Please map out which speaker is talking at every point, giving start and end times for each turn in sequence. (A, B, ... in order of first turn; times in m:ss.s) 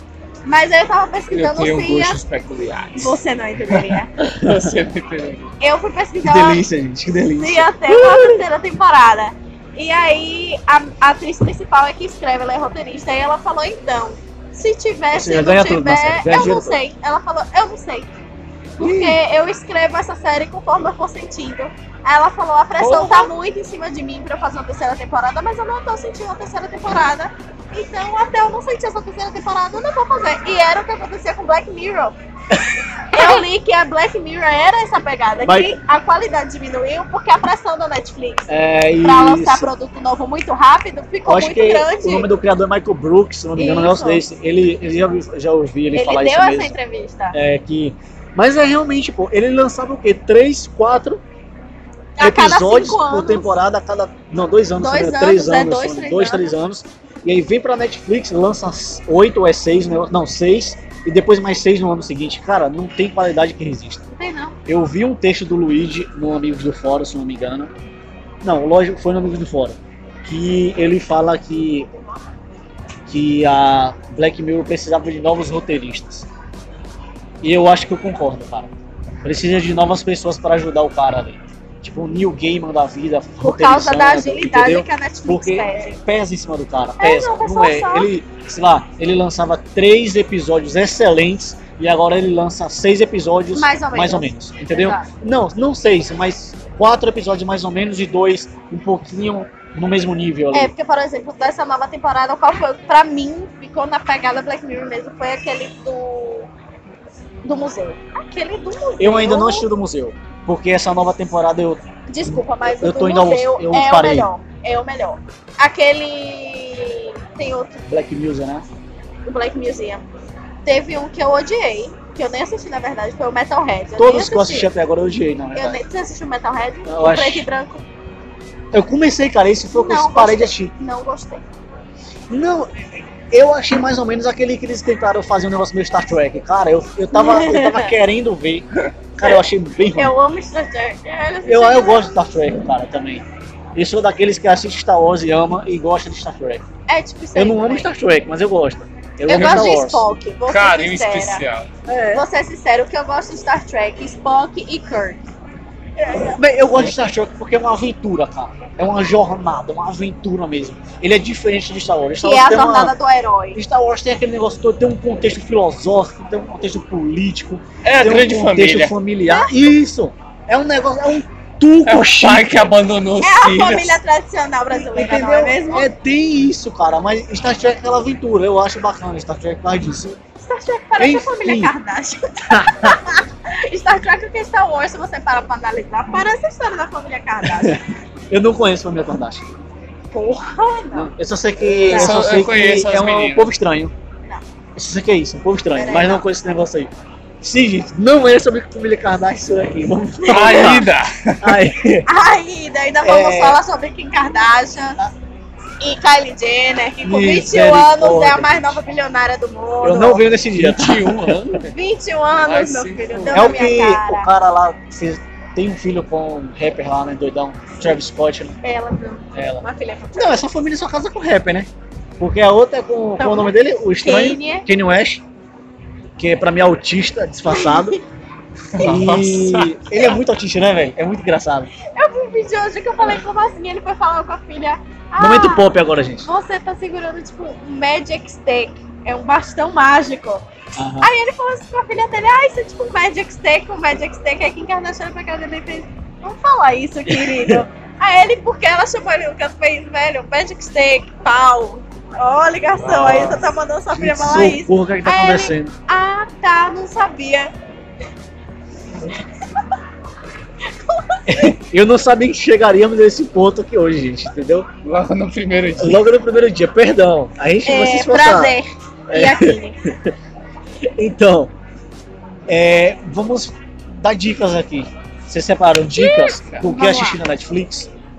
0:00.4-0:02.2 A
0:01.3-0:03.2 B
0:03.0-0:04.1 A
0:03.7-0:05.5 B
0:04.4-0:04.7 C
0:05.6-0:06.6 A
0:06.2-0:08.4 C
0:07.3-0:18.1 A
0:15.1-0:16.8 C
0:18.8-0:32.2 A
0:18.8-0:19.2 C
0:22.8-0:23.2 B
0:22.8-0:23.2 C
0:33.1-0:42.3 A
0:33.1-0:33.4 C
0:35.4-0:35.7 C
0:38.5-0:39.7 C
0:41.2-0:46.8 C
0:43.6-0:44.2 A
0:45.9-0:47.4 A
0:47.3-0:51.2 C
0:52.2-0:53.6 A
0:52.2-1:04.0 C
0:54.8-0:56.5 A
1:04.1-1:04.6 A
1:04.6-1:07.7 C
1:08.4-1:11.9 C
1:13.1-1:16.3 C
1:17.4-1:40.7 C
1:23.4-1:26.0 A
1:27.0-1:28.1 A
1:33.5-1:35.1 A
1:40.5-1:46.5 A
1:47.4-1:49.7 A
1:49.0-1:51.8 C
1:52.1-1:57.8 A
1:52.8-1:54.3 C
1:57.9-1:58.6 C
1:59.2-2:00.1 A
2:00.6-2:04.7 A
2:04.0-2:05.8 C
2:05.5-2:07.8 A
2:06.9-2:07.5 C
2:08.7-2:10.7 C
2:09.7-2:11.4 A
2:12.3-2:20.1 C
2:17.1-2:18.0 A
2:19.9-2:22.2 A
2:21.4-2:26.6 C
2:26.9-2:27.9 A
2:27.3-2:30.1 C
2:29.3-2:31.4 A
2:29.3-2:29.7 B
2:30.5-2:31.7 B
2:31.9-2:32.2 C
2:32.1-2:35.2 A
2:36.0-2:43.0 C
2:42.2-2:43.6 A
2:43.5-2:52.7 C
2:47.8-2:48.9 B
2:49.3-2:49.5 A
2:51.8-2:54.0 B
2:53.2-2:55.9 A
2:54.7-3:00.2 C
3:00.4-3:07.8 A
3:01.0-3:01.7 C
3:02.5-3:03.0 C
3:07.4-3:09.4 C
3:10.1-3:11.1 A
3:10.9-3:13.9 C
3:11.9-3:12.2 A
3:11.9-3:13.5 B
3:14.8-3:22.1 C
3:15.7-3:16.3 A
3:20.2-3:20.8 A
3:20.3-3:21.6 B
3:22.0-3:25.0 A
3:23.0-3:23.6 C
3:25.8-3:30.2 A
3:27.0-3:28.8 C
3:29.8-3:31.6 C
3:30.5-3:31.8 B
3:31.6-3:34.3 A
3:32.4-3:33.6 B
3:33.3-3:38.6 C
3:38.6-3:40.5 A
3:39.3-3:45.2 C
3:43.2-3:44.7 A
3:46.2-3:48.0 C
3:47.5-3:48.0 A
3:48.7-3:49.8 B
3:48.8-3:51.7 C
3:51.9-3:55.7 A
3:55.2-3:56.3 C
3:56.2-4:00.4 A
4:00.8-4:01.1 C
4:01.0-4:17.5 A
4:07.1-4:07.6 C
4:12.8-4:15.7 C
4:20.9-4:21.5 A
4:21.3-4:24.7 C
4:24.8-4:26.0 B
4:25.8-4:28.6 C
4:27.6-4:29.8 A
4:29.1-4:30.1 C
4:30.8-4:31.5 C
4:32.5-4:37.9 C
4:35.9-4:37.2 A